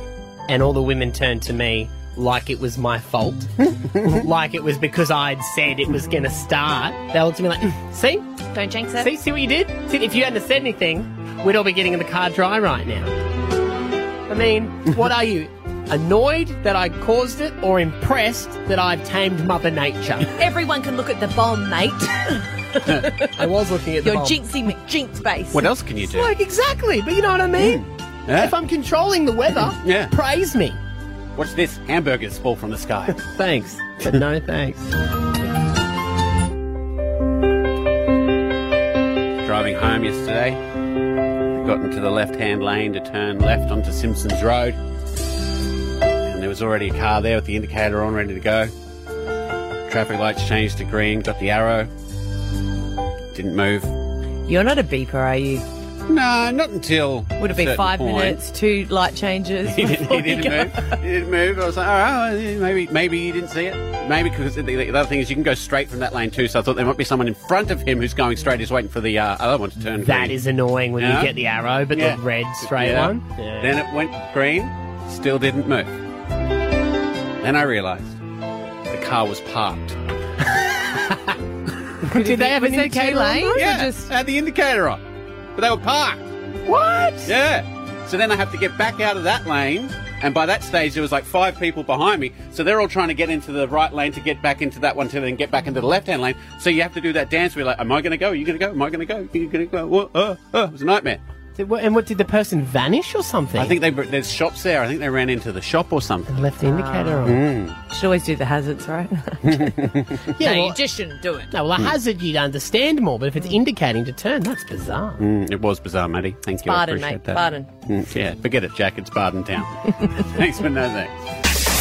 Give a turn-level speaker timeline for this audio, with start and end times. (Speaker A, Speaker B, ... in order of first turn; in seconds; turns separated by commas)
Speaker A: 0.5-8.2, Speaker B: 8.5-9.1, Speaker A: 9.0-13.1, Speaker A: 14.3-20.4, Speaker B: 20.4-23.4, Speaker A: 23.3-24.4, Speaker B: 24.0-25.7, Speaker C: 25.5-26.3, Speaker A: 26.0-30.8, Speaker C: 27.6-28.5, Speaker C: 29.8-30.1, Speaker C: 31.3-33.2, Speaker A: 33.3-34.9, Speaker C: 39.4-40.6, Speaker C: 41.5-44.8, Speaker C: 46.2-48.7, Speaker C: 49.9-51.9, Speaker C: 53.3-53.9, Speaker B: 54.5-55.6, Speaker C: 56.1-58.4, Speaker B: 57.4-61.0, Speaker C: 59.6-70.4, Speaker A: 70.0-73.8, Speaker C: 71.0-71.3, Speaker C: 71.9-75.9, Speaker C: 77.4-78.2, Speaker C: 78.9-80.0, Speaker A: 82.1-83.7, Speaker B: 82.1-84.1, Speaker C: 83.5-85.0, Speaker C: 85.5-86.2, Speaker A: 86.7-87.3, Speaker C: 87.2-101.2, Speaker A: 101.6-103.8, Speaker C: 103.5-106.4, Speaker A: 106.3-107.4, Speaker B: 106.6-107.3, Speaker C: 107.2-107.8, Speaker B: 107.9-109.9, Speaker C: 109.4-110.5, Speaker A: 110.4-110.8, Speaker B: 110.4-111.5, Speaker A: 111.5-115.2, Speaker C: 115.2-121.1, Speaker B: 116.7-117.7